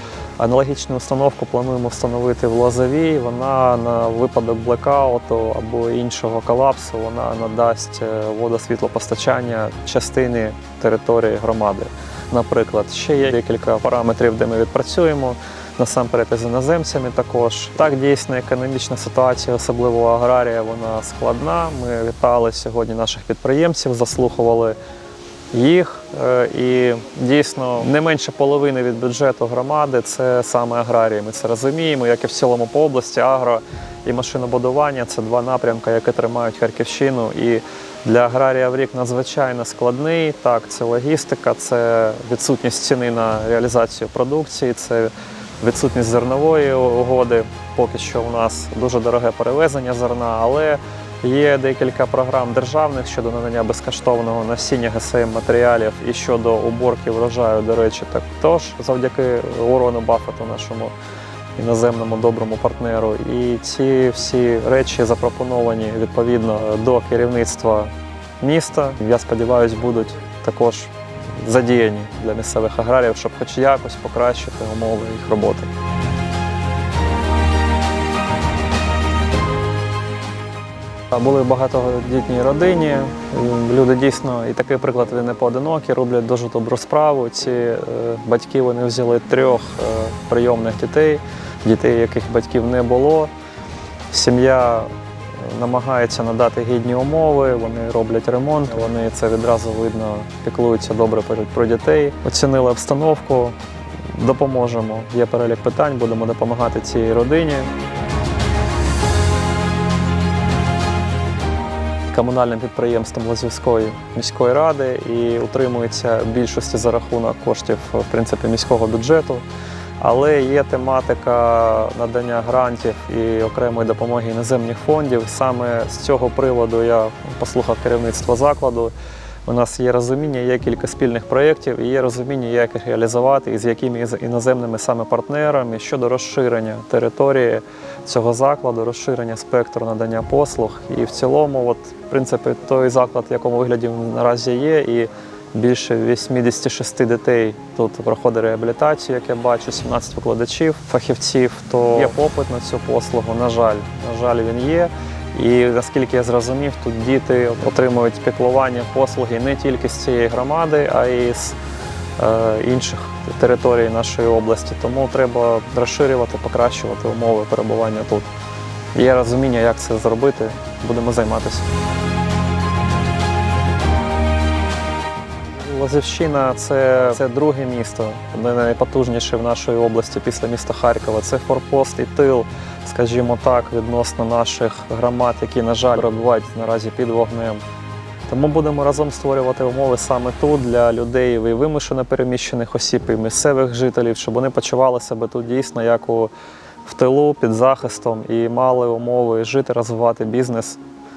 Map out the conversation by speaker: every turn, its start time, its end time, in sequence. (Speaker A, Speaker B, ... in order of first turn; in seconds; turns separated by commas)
Speaker A: 0.4-24.8, Speaker A: 25.5-60.9, Speaker A: 61.6-75.7, Speaker A: 81.1-93.3, Speaker A: 94.1-103.5, Speaker A: 104.1-107.7, Speaker A: 112.1-119.4, Speaker A: 120.0-128.9, Speaker A: 129.4-161.6, Speaker A: 162.2-168.3, Speaker A: 168.9-171.7, Speaker A: 175.6-187.6, Speaker A: 188.3-196.3, Speaker A: 196.8-200.8